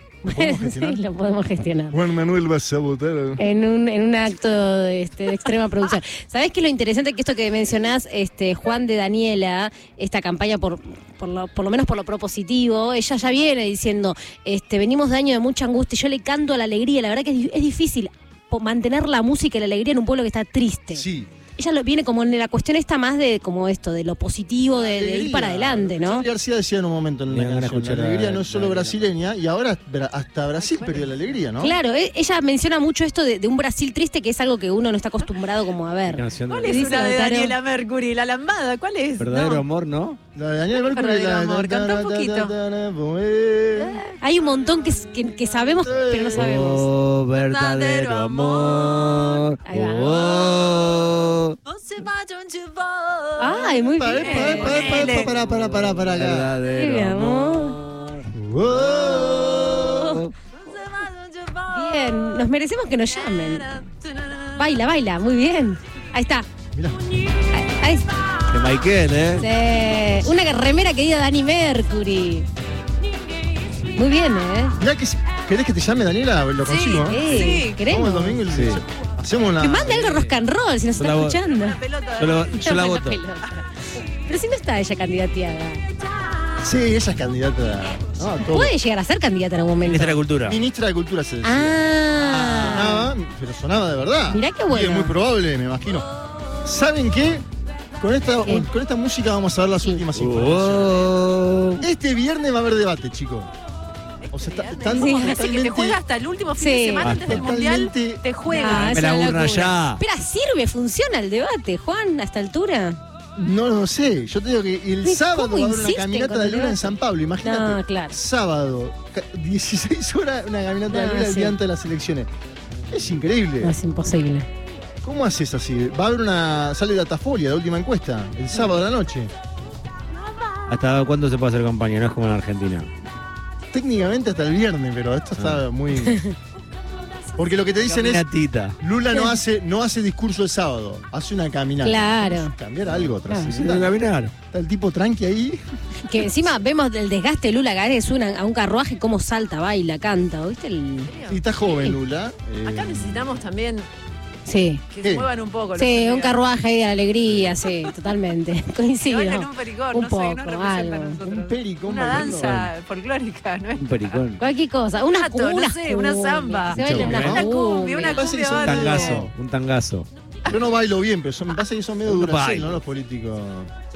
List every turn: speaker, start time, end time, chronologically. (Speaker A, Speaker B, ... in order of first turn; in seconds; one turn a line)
Speaker A: 0.2-2.0
Speaker B: 0.3-1.0
Speaker B: 1.9-3.4
Speaker A: 3.4-21.1
Speaker B: 20.9-21.3
Speaker A: 21.6-26.3
Speaker B: 24.7-31.8
Speaker C: 27.3-29.1
Speaker D: 30.6-31.4
Speaker A: 31.6-37.5
Speaker C: 36.1-36.9
Speaker D: 36.5-39.6
Speaker C: 39.2-40.2
Speaker B: 40.3-44.0
Speaker D: 40.8-42.5
Speaker D: 43.8-44.1
Speaker A: 44.2-46.9
Speaker B: 45.8-46.7
Speaker C: 46.3-51.5
Speaker D: 47.3-49.4
Speaker A: 49.6-50.2
Speaker D: 50.2-50.9
Speaker D: 51.6-55.3
Speaker A: 53.4-54.9
Speaker B: 54.0-56.5
Speaker C: 54.9-60.3
Speaker A: 56.8-57.8
Speaker B: 58.3-60.2
Speaker D: 59.1-59.6
Speaker D: 60.6-62.5
Speaker A: 61.7-63.7
Speaker D: 63.1-64.9
Speaker A: 64.6-66.5
Speaker B: 66.7-67.0
Speaker A: 67.5-68.1
Speaker C: 68.5-69.5
Speaker A: 69.4-72.5
Speaker A: 74.0-74.8
Speaker B: 74.8-80.2
Speaker D: 76.7-77.8
Speaker A: 77.1-78.4
Speaker C: 78.5-78.8
Speaker A: 79.6-81.8
Speaker C: 79.8-80.4
Speaker C: 81.0-81.4
Speaker D: 81.4-82.9
Speaker C: 82.2-83.2
Speaker A: 82.7-83.6
Speaker A: 84.2-85.8
Speaker B: 86.6-88.8
Speaker A: 88.5-90.2
Speaker C: 89.8-90.6
Speaker B: 90.4-96.1
Speaker A: 91.4-93.1
Speaker A: 94.3-95.2
Speaker B: 96.6-97.5
Speaker B: 98.0-101.1
Speaker C: 100.1-101.8
Speaker B: 101.8-103.5
Speaker D: 104.3-109.7
Speaker B: 104.3-106.0
Speaker A: 105.0-105.4
Speaker A: 106.6-107.0
Speaker C: 107.0-107.5
Speaker B: 107.1-108.3
Speaker C: 108.6-110.0
Speaker A: 108.6-113.0
Speaker B: 113.4-122.3
Speaker A: 115.0-118.2
Speaker A: 120.9-121.5
Speaker B: 122.9-123.8
Speaker A: 123.6-124.5
Speaker B: 125.0-129.3
Speaker C: 130.7-132.9
Speaker B: 133.7-136.2
Speaker C: 135.4-135.7
Speaker B: 137.4-138.2
Speaker C: 137.8-138.8
Speaker B: 138.8-143.9
Speaker A: 139.1-139.4
Speaker A: 141.8-142.5
Speaker C: 142.9-144.3
Speaker B: 144.5-145.6
Speaker A: 146.1-151.1
Speaker B: 146.1-146.4
Speaker D: 151.0-151.8
Speaker B: 151.3-153.4
Speaker D: 152.7-153.9
Speaker A: 154.5-154.8
Speaker D: 154.9-156.4
Speaker B: 155.0-155.3
Speaker A: 155.8-161.2
Speaker C: 157.3-157.5
Speaker D: 159.1-164.3
Speaker B: 161.3-162.7
Speaker C: 163.8-164.4
Speaker A: 164.4-168.2
Speaker D: 165.0-169.3
Speaker C: 166.7-167.4
Speaker B: 166.8-167.5
Speaker B: 168.1-169.3
Speaker C: 168.5-170.1
Speaker B: 170.5-173.7
Speaker C: 172.1-172.8